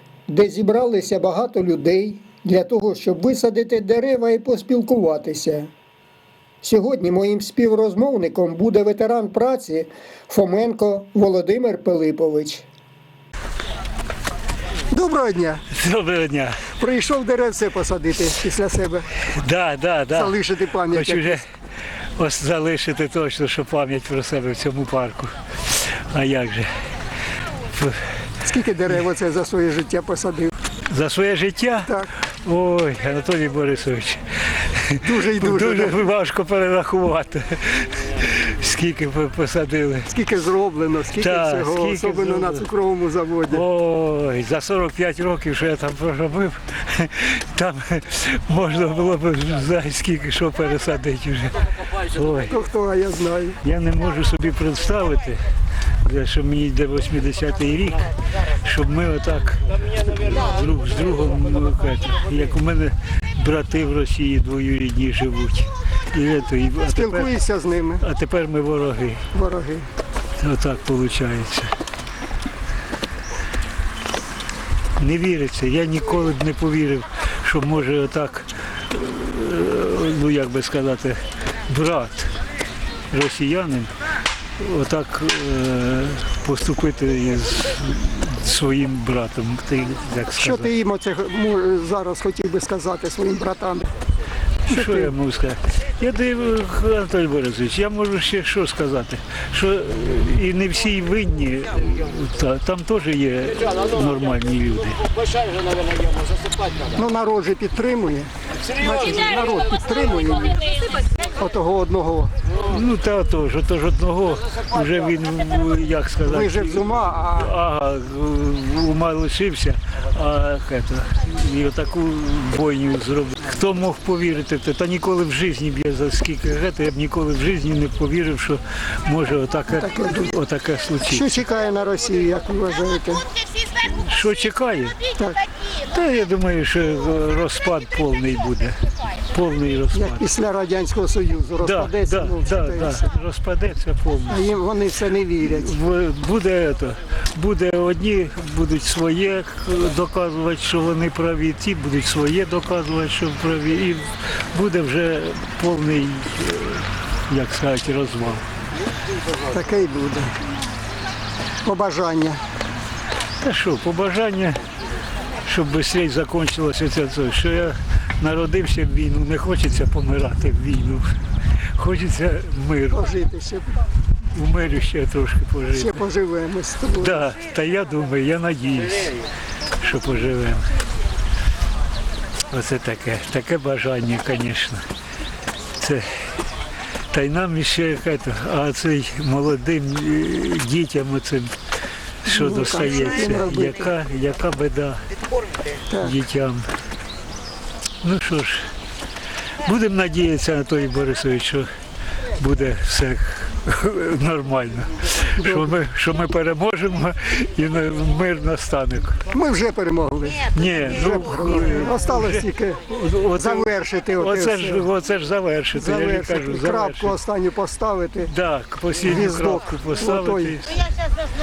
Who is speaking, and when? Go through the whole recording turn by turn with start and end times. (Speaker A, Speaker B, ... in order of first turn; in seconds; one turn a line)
Speaker A: 0.3-5.7
Speaker A: 6.6-12.7
Speaker A: 14.9-15.6
Speaker B: 15.7-16.6
Speaker A: 16.7-19.1
Speaker B: 19.2-21.4
Speaker A: 20.1-21.4
Speaker B: 22.2-26.8
Speaker B: 27.7-28.1
Speaker A: 28.4-30.6
Speaker B: 30.9-40.1
Speaker A: 31.9-32.1
Speaker A: 35.0-36.0
Speaker A: 40.1-43.6
Speaker B: 41.2-42.6
Speaker B: 43.5-52.5
Speaker A: 52.5-53.6
Speaker B: 53.6-55.4
Speaker B: 56.0-67.3
Speaker A: 66.9-68.0
Speaker B: 68.0-69.2
Speaker A: 69.3-69.9
Speaker B: 70.3-71.7
Speaker B: 75.0-82.3
Speaker B: 83.1-83.9
Speaker B: 84.6-90.7
Speaker A: 90.3-93.9
Speaker B: 94.6-105.1
Speaker A: 94.7-95.1
Speaker A: 106.8-112.3
Speaker B: 112.6-131.4
Speaker A: 116.2-117.5
Speaker A: 129.8-130.3
Speaker A: 131.1-133.3
Speaker B: 133.8-135.0
Speaker A: 135.1-135.4
Speaker B: 135.7-138.8
Speaker B: 139.3-140.2
Speaker A: 139.9-143.1
Speaker B: 141.6-144.4
Speaker A: 144.3-145.7
Speaker B: 145.4-158.4
Speaker A: 159.4-160.3
Speaker A: 161.6-162.4
Speaker B: 163.4-164.6
Speaker B: 165.4-171.1
Speaker B: 171.8-173.0
Speaker A: 172.9-173.8
Speaker B: 174.3-176.0
Speaker A: 175.7-177.3
Speaker B: 177.0-179.2
Speaker B: 179.8-180.7
Speaker B: 182.5-184.8
Speaker B: 185.8-186.1
Speaker B: 187.1-191.6
Speaker B: 192.2-195.0
Speaker A: 192.3-193.9
Speaker A: 195.9-196.2
Speaker B: 196.0-196.7
Speaker B: 198.0-198.7
Speaker B: 199.6-201.7
Speaker B: 202.3-209.2
Speaker A: 205.4-205.7
Speaker A: 209.3-214.9
Speaker B: 210.5-217.2
Speaker A: 215.7-218.3
Speaker B: 218.2-220.9
Speaker A: 219.0-220.6